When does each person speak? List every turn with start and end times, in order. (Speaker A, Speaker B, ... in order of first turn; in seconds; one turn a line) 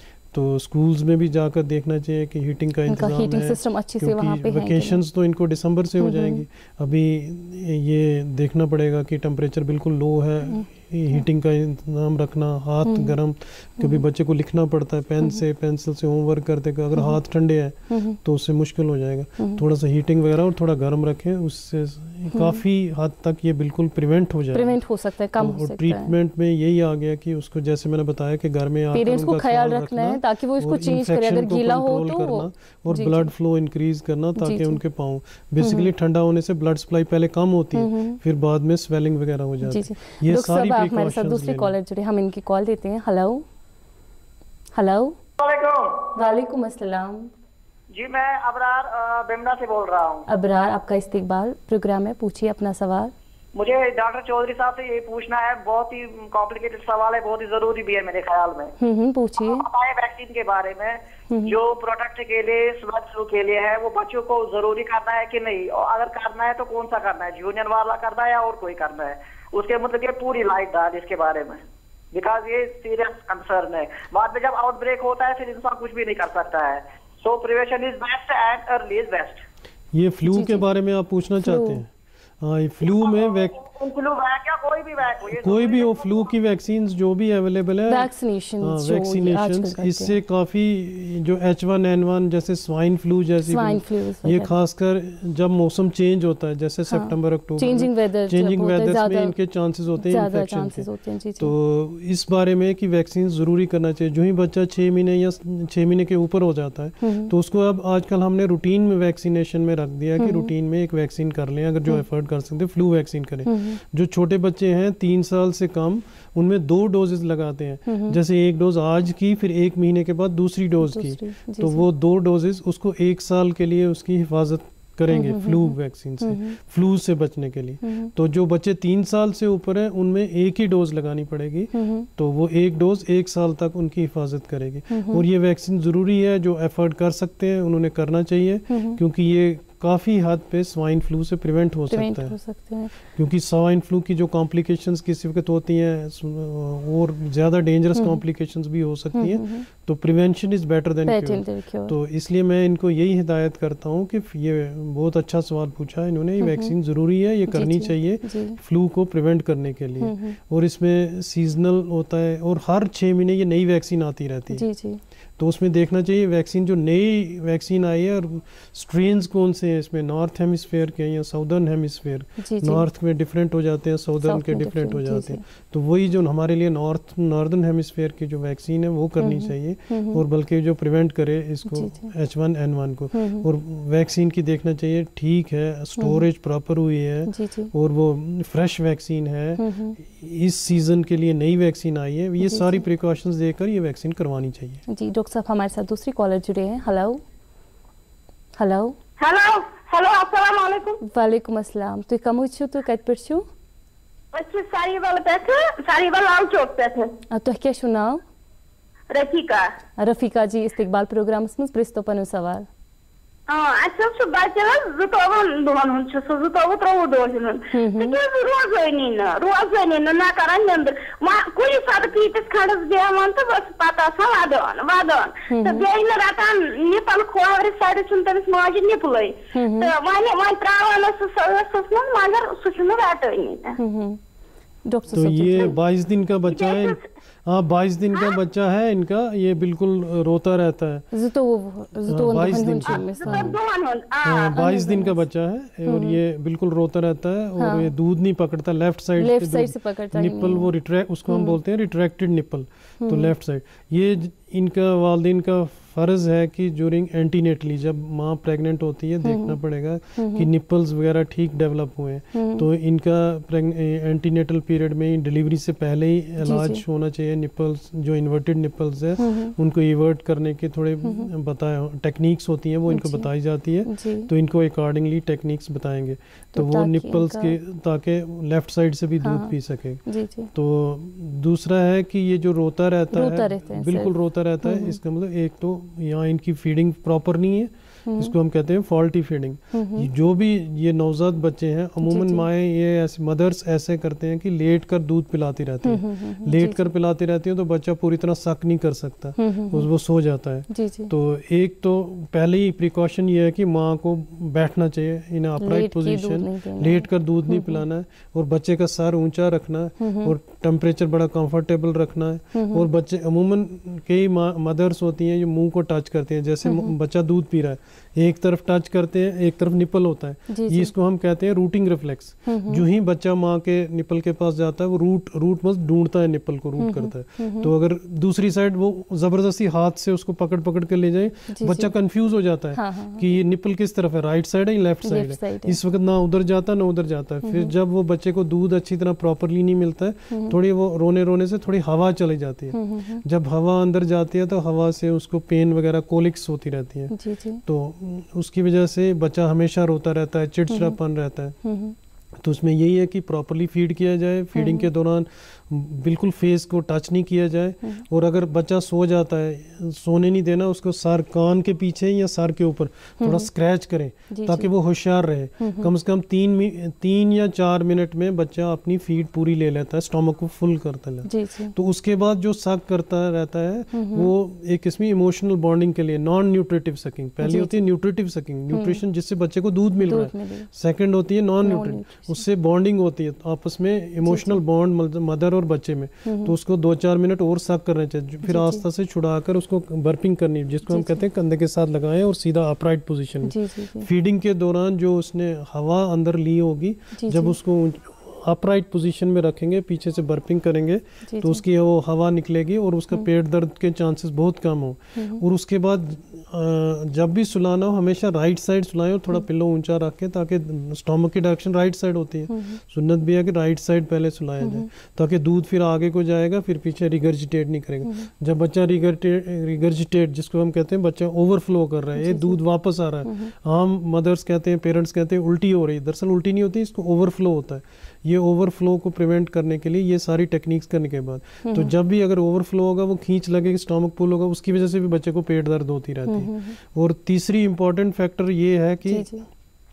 Speaker A: 0.3-24.8
Speaker B: 2.9-5.0
Speaker B: 6.0-6.4
Speaker B: 10.5-11.2
Speaker B: 12.8-13.2
Speaker B: 17.9-18.2
Speaker B: 22.3-22.6
Speaker B: 24.5-26.1
Speaker A: 25.4-41.7
Speaker B: 28.9-33.3
Speaker B: 34.4-34.8
Speaker B: 35.6-35.9
Speaker B: 37.7-38.2
Speaker B: 39.6-43.5
Speaker B: 44.7-45.2
Speaker C: 45.4-46.1
Speaker B: 46.1-47.3
Speaker C: 47.9-50.2
Speaker B: 50.3-53.1
Speaker C: 53.5-58.7
Speaker B: 58.8-59.6
Speaker C: 59.4-79.4
Speaker B: 61.3-61.5
Speaker A: 79.9-81.9
Speaker B: 80.3-80.6
Speaker B: 81.4-81.8
Speaker A: 82.4-83.6
Speaker C: 82.9-86.3
Speaker A: 85.3-100.8
Speaker B: 87.9-90.2
Speaker B: 93.4-94.5
Speaker B: 96.9-99.3
Speaker B: 100.0-101.5
Speaker A: 101.4-142.3
Speaker B: 107.0-107.3
Speaker B: 110.2-110.5
Speaker B: 113.5-113.8
Speaker B: 117.9-118.2
Speaker B: 120.8-121.9
Speaker B: 125.1-126.5
Speaker B: 127.8-128.1
Speaker B: 131.7-132.1
Speaker B: 134.9-135.2
Speaker B: 138.7-139.0
Speaker B: 141.9-142.9
Speaker A: 143.1-164.6
Speaker B: 149.1-149.7
Speaker B: 151.1-151.9
Speaker B: 156.4-156.7
Speaker B: 157.5-158.6
Speaker B: 160.0-160.3
Speaker B: 164.5-165.0
Speaker A: 165.4-194.8
Speaker B: 172.4-172.9
Speaker B: 174.2-175.4
Speaker B: 179.2-180.2
Speaker B: 181.7-182.1
Speaker B: 183.1-183.4
Speaker B: 186.0-186.2
Speaker B: 187.3-187.7
Speaker B: 189.6-190.0
Speaker B: 192.4-192.8
Speaker B: 194.9-197.2
Speaker B: 198.6-199.0
Speaker D: 199.2-201.0
Speaker B: 201.0-203.5
Speaker D: 204.3-207.1
Speaker B: 207.3-208.2
Speaker D: 209.1-209.7
Speaker B: 210.0-212.7
Speaker D: 213.5-233.8
Speaker B: 217.7-218.2
Speaker B: 225.5-225.8
Speaker B: 229.5-229.9
Speaker B: 233.8-234.2
Speaker B: 234.9-235.7
Speaker A: 235.1-241.1
Speaker D: 236.5-237.0
Speaker B: 241.1-243.5
Speaker A: 242.1-243.6
Speaker D: 242.9-244.5
Speaker A: 244.2-280.0
Speaker B: 244.6-245.2
Speaker B: 245.9-246.2
Speaker B: 247.6-247.9
Speaker B: 249.2-250.7
Speaker B: 251.3-251.6
Speaker B: 253.0-253.3
Speaker B: 259.2-259.6
Speaker B: 260.2-260.5
Speaker B: 262.3-262.7
Speaker B: 266.4-266.8
Speaker B: 269.2-269.5
Speaker B: 271.0-271.3
Speaker B: 272.9-273.3
Speaker B: 273.9-274.3
Speaker B: 276.5-277.6
Speaker B: 279.2-279.5
Speaker B: 280.1-280.5
Speaker A: 280.5-347.1
Speaker B: 283.1-285.0
Speaker B: 288.1-288.3
Speaker B: 289.7-290.1
Speaker B: 292.0-292.4
Speaker B: 295.8-296.9
Speaker B: 299.4-299.9
Speaker B: 300.7-301.1
Speaker B: 305.6-307.8
Speaker B: 310.0-310.3
Speaker B: 312.5-312.9
Speaker B: 316.6-316.9
Speaker B: 320.5-320.9
Speaker B: 322.5-322.8
Speaker B: 326.8-327.7
Speaker B: 331.5-331.9
Speaker B: 332.7-333.4
Speaker B: 335.0-335.8
Speaker B: 337.4-337.7
Speaker B: 340.3-340.6
Speaker B: 342.7-343.2
Speaker B: 347.1-347.6
Speaker A: 347.6-351.6
Speaker B: 350.7-351.0
Speaker B: 351.6-351.9
Speaker A: 352.4-439.3
Speaker B: 354.6-354.9
Speaker B: 363.2-363.5
Speaker B: 364.3-364.7
Speaker B: 365.6-365.9
Speaker B: 371.2-371.7
Speaker B: 373.9-374.3
Speaker B: 377.4-377.9
Speaker B: 378.7-379.0
Speaker B: 380.0-380.7
Speaker B: 381.6-382.4
Speaker B: 384.2-384.6
Speaker B: 386.2-386.5
Speaker B: 388.4-388.8
Speaker B: 390.9-391.2
Speaker B: 393.4-394.1
Speaker B: 397.1-397.5
Speaker B: 401.3-401.6
Speaker B: 405.1-405.4
Speaker B: 412.5-412.8
Speaker B: 414.6-414.9
Speaker B: 422.1-422.6
Speaker B: 423.2-423.5
Speaker B: 431.6-431.9
Speaker B: 436.3-436.8
Speaker B: 439.1-439.4